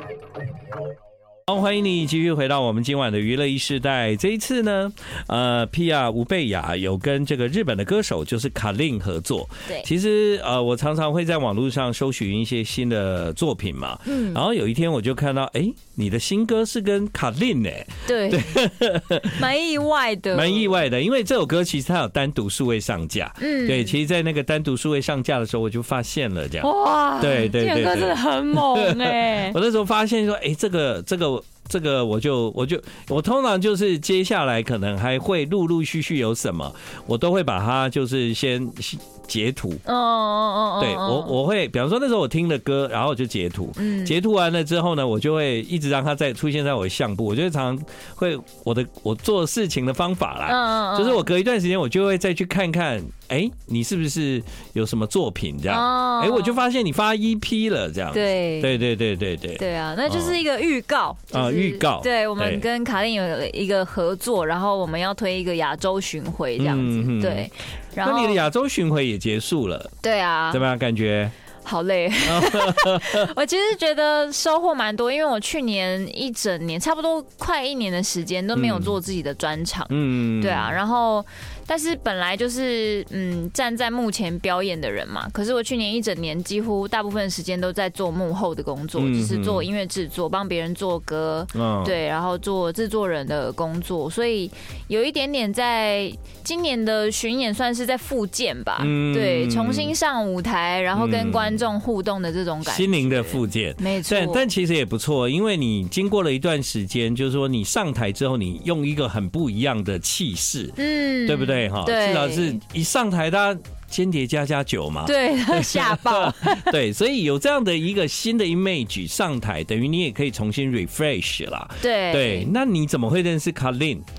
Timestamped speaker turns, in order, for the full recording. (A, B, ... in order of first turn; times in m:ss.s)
0:01.5-0:19.4 A
0:14.1-0:14.4 B
0:18.1-0:18.5 B
0:19.4-0:20.8 B
0:20.3-0:39.8 A
0:23.4-0:23.9 B
0:26.6-0:29.6 B
0:39.8-0:41.4 B
0:40.8-1:00.4 A
0:43.8-0:44.2 B
0:50.5-0:51.3 B
0:55.7-0:56.6 B
0:58.1-0:58.8 B
0:59.6-1:08.4 B
1:01.3-1:02.6 A
1:06.6-1:07.5 A
1:08.0-1:09.9 A
1:10.0-1:10.6 B
1:10.5-1:11.3 A
1:11.6-1:44.5 B
1:12.3-1:13.3 A
1:18.6-1:19.0 A
1:19.9-1:20.8 A
1:29.0-1:29.7 A
1:31.5-1:32.0 A
1:38.8-1:39.9 A
1:41.0-1:41.6 A
1:42.6-2:04.0 A
1:50.8-1:52.6 B
1:55.1-1:56.8 B
2:01.8-2:02.5 B